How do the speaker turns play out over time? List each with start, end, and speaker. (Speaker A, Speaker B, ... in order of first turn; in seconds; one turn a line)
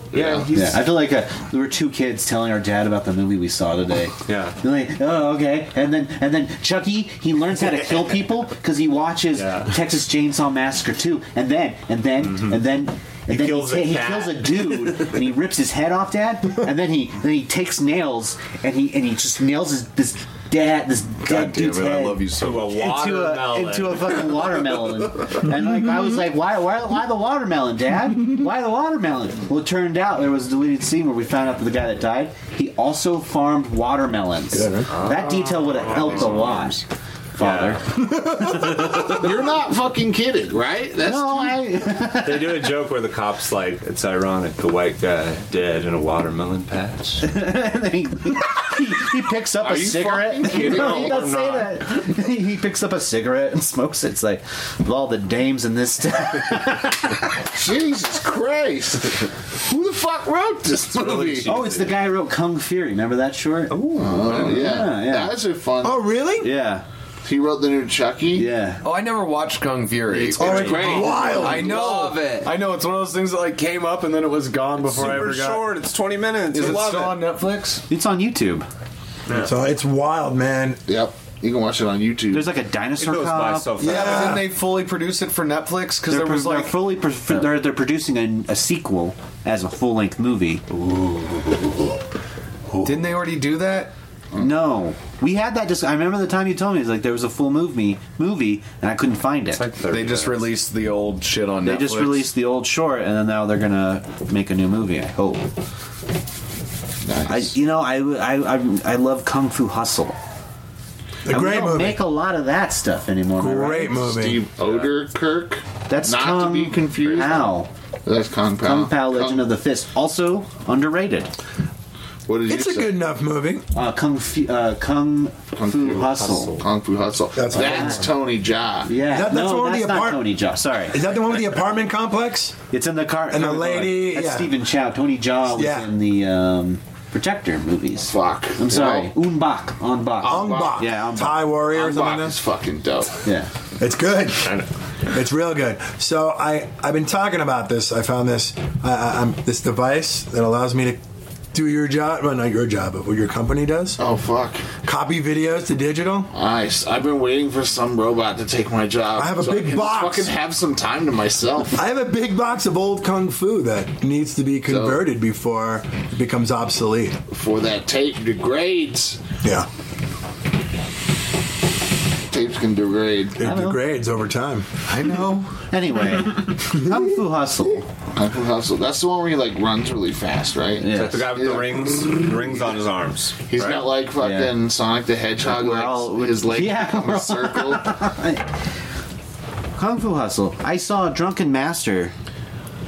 Speaker A: 0.1-0.9
Speaker B: 0.1-0.5
Speaker C: 0.5-36.8
Speaker A: 4.3-4.6
Speaker A: 9.3-9.7
Speaker A: 12.3-12.6
Speaker A: 13.3-15.1
Speaker D: 21.2-22.7
Speaker A: 22.4-24.4
Speaker E: 34.5-34.9
Speaker A: 34.9-36.8
Speaker C: 37.4-37.9
Speaker A: 37.4-38.0
Speaker E: 38.2-38.7
Speaker A: 38.6-39.0
Speaker B: 39.0-41.7
Speaker C: 41.0-42.7
Speaker A: 42.2-47.2
Speaker C: 47.2-57.4
Speaker B: 49.6-51.2
Speaker A: 50.4-51.7
Speaker B: 57.5-61.6
Speaker A: 60.9-62.0
Speaker C: 61.5-63.8
Speaker A: 63.7-64.5
Speaker B: 64.0-66.2
Speaker C: 64.3-65.4
Speaker E: 65.8-66.5
Speaker C: 66.4-66.8
Speaker B: 67.2-68.5
Speaker C: 68.3-68.8
Speaker D: 68.8-70.8
Speaker C: 70.1-71.3
Speaker B: 70.3-71.5
Speaker E: 70.4-72.0
Speaker A: 70.5-72.5
Speaker D: 71.3-75.7
Speaker A: 74.8-77.3
Speaker D: 76.5-77.8
Speaker C: 77.9-78.7
Speaker E: 79.3-80.8
Speaker B: 80.9-82.6
Speaker C: 82.3-84.0
Speaker A: 83.0-84.4
Speaker E: 83.8-84.5
Speaker D: 83.8-86.8
Speaker C: 86.1-90.6
Speaker A: 90.7-91.6
Speaker D: 92.8-93.9
Speaker C: 94.4-99.6
Speaker A: 99.5-100.5
Speaker D: 99.9-102.3
Speaker C: 101.6-105.5
Speaker B: 107.0-107.5
Speaker C: 107.3-110.2
Speaker E: 111.3-112.0
Speaker C: 111.3-114.1
Speaker E: 113.4-114.4
Speaker B: 114.0-119.5
Speaker A: 114.6-114.9
Speaker C: 115.9-117.7
Speaker C: 118.6-121.3
Speaker B: 122.3-123.0
Speaker E: 122.5-123.7
Speaker C: 123.7-126.6
Speaker B: 125.6-128.9
Speaker A: 126.0-126.6
Speaker E: 127.3-128.1
Speaker C: 127.5-128.0
Speaker C: 128.8-131.0
Speaker E: 129.0-130.4
Speaker E: 130.9-132.6
Speaker C: 132.7-141.4
Speaker E: 133.3-134.6
Speaker E: 135.5-135.9
Speaker B: 138.0-139.1
Speaker B: 140.2-140.9
Speaker E: 140.2-142.4
Speaker B: 141.6-143.2
Speaker C: 143.2-143.5
Speaker E: 143.8-151.0
Speaker E: 151.5-154.0
Speaker B: 154.0-154.7
Speaker E: 154.8-156.3
Speaker B: 156.3-161.8
Speaker E: 159.2-160.3
Speaker E: 161.8-167.2
Speaker B: 164.7-165.0
Speaker B: 167.3-169.2
Speaker E: 169.4-169.7
Speaker B: 172.3-173.4
Speaker E: 173.4-174.7
Speaker C: 173.4-173.8
Speaker D: 174.9-175.5
Speaker C: 175.7-177.9
Speaker B: 178.1-182.2
Speaker C: 180.8-181.3
Speaker A: 180.9-183.4
Speaker B: 183.5-188.0
Speaker C: 184.2-184.6
Speaker C: 185.5-188.5
Speaker C: 189.8-192.1